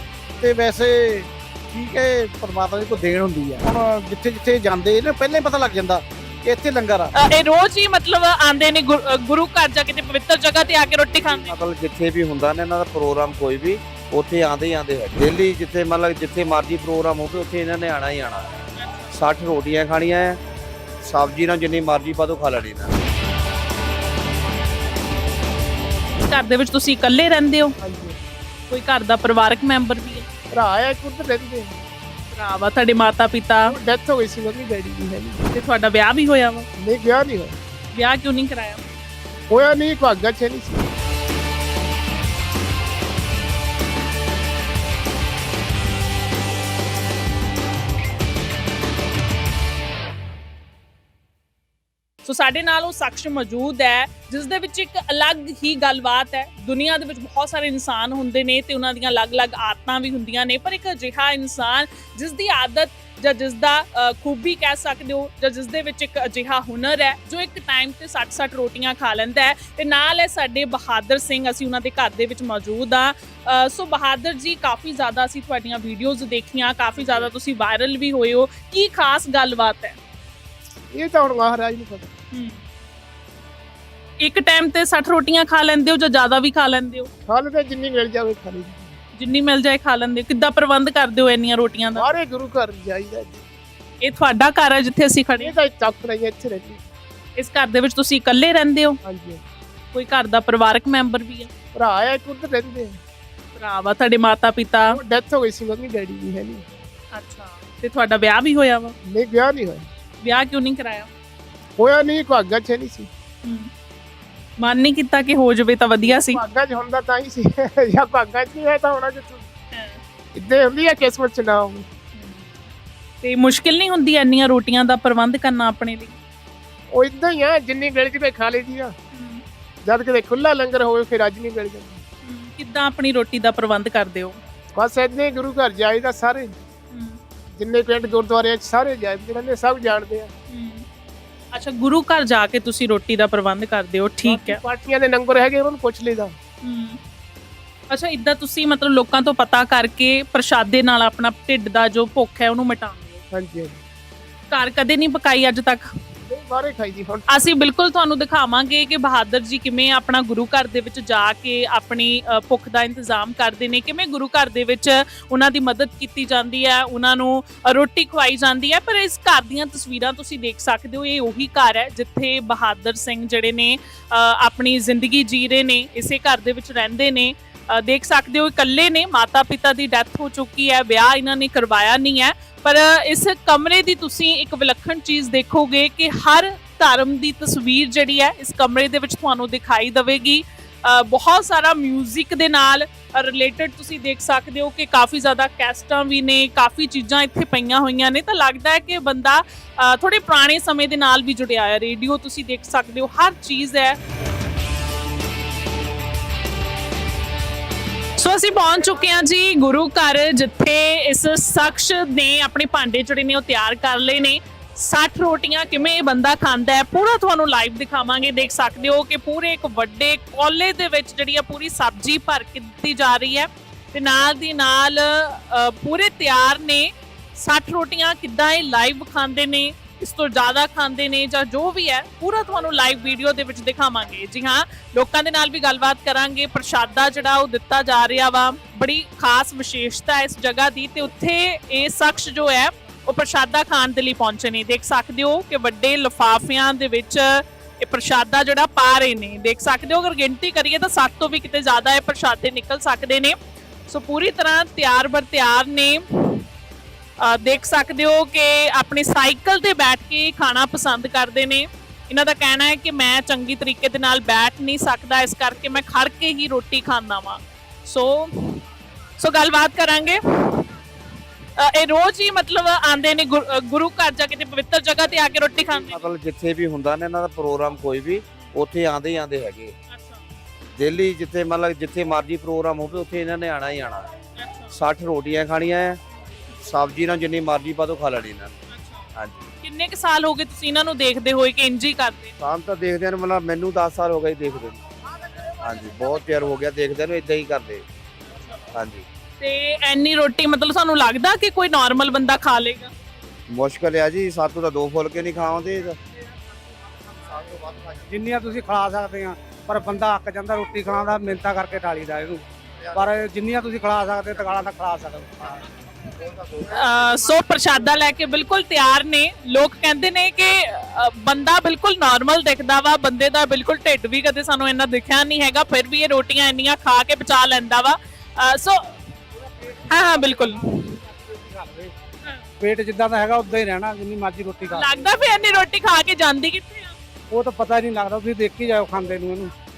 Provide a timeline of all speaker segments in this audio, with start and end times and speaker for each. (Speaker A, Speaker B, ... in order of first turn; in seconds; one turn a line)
Speaker A: 0.4-7.1
Speaker B: 7.1-11.5
Speaker C: 11.0-18.5
Speaker B: 18.8-19.1
Speaker C: 19.1-20.4
Speaker C: 21.0-22.9
Speaker B: 26.2-27.7
Speaker D: 27.8-28.2
Speaker B: 28.7-30.3
Speaker D: 30.5-31.7
Speaker B: 32.3-33.7
Speaker D: 33.7-35.4
Speaker B: 35.5-36.7
Speaker D: 36.8-37.5
Speaker B: 37.9-38.8
Speaker D: 39.5-40.9
Speaker B: 52.2-80.0
Speaker D: 80.9-82.1
Speaker B: 82.3-82.6
Speaker B: 84.2-87.1
Speaker D: 87.3-89.0
Speaker B: 89.2-92.1
Speaker D: 92.0-93.4
Speaker B: 94.0-95.5
Speaker D: 95.4-96.8
Speaker B: 97.4-99.0
Speaker D: 99.0-99.4
Speaker B: 99.9-101.5
Speaker D: 101.7-103.0
Speaker B: 103.5-105.0
Speaker D: 104.9-106.6
Speaker B: 107.1-108.9
Speaker D: 109.0-109.9
Speaker B: 110.2-111.1
Speaker D: 111.8-113.1
Speaker B: 113.4-113.7
Speaker B: 114.6-116.4
Speaker D: 116.0-119.5
Speaker B: 119.7-120.0
Speaker D: 120.3-121.8
Speaker B: 122.1-122.5
Speaker B: 123.2-126.2
Speaker D: 126.9-128.9
Speaker B: 129.1-129.4
Speaker D: 129.8-132.0
Speaker B: 132.2-134.4
Speaker D: 134.8-136.5
Speaker B: 136.9-137.2
Speaker D: 137.6-140.3
Speaker B: 140.5-140.8
Speaker B: 141.5-144.6
Speaker D: 144.2-146.3
Speaker B: 146.6-147.0
Speaker B: 147.9-153.2
Speaker D: 153.3-153.8
Speaker B: 154.5-155.9
Speaker D: 156.3-157.4
Speaker B: 157.3-204.0
Speaker B: 208.2-253.3
Speaker B: 253.9-256.4
Speaker B: 257.2-268.6
Speaker B: 269.2-270.6
Speaker B: 271.6-276.1
Speaker C: 275.9-279.7
Speaker B: 279.9-280.2
Speaker C: 280.8-284.1
Speaker B: 284.4-284.7
Speaker C: 284.7-286.0
Speaker C: 286.6-288.6
Speaker B: 288.7-289.1
Speaker C: 289.1-289.5
Speaker B: 289.6-292.3
Speaker C: 292.4-294.8
Speaker C: 295.6-297.8
Speaker C: 298.7-299.0
Speaker B: 299.4-302.9
Speaker C: 303.5-306.0
Speaker E: 308.1-315.6
Speaker B: 316.6-328.9
Speaker B: 329.9-330.6
Speaker E: 330.7-331.9
Speaker E: 332.6-334.9
Speaker B: 334.7-336.9
Speaker E: 337.3-339.5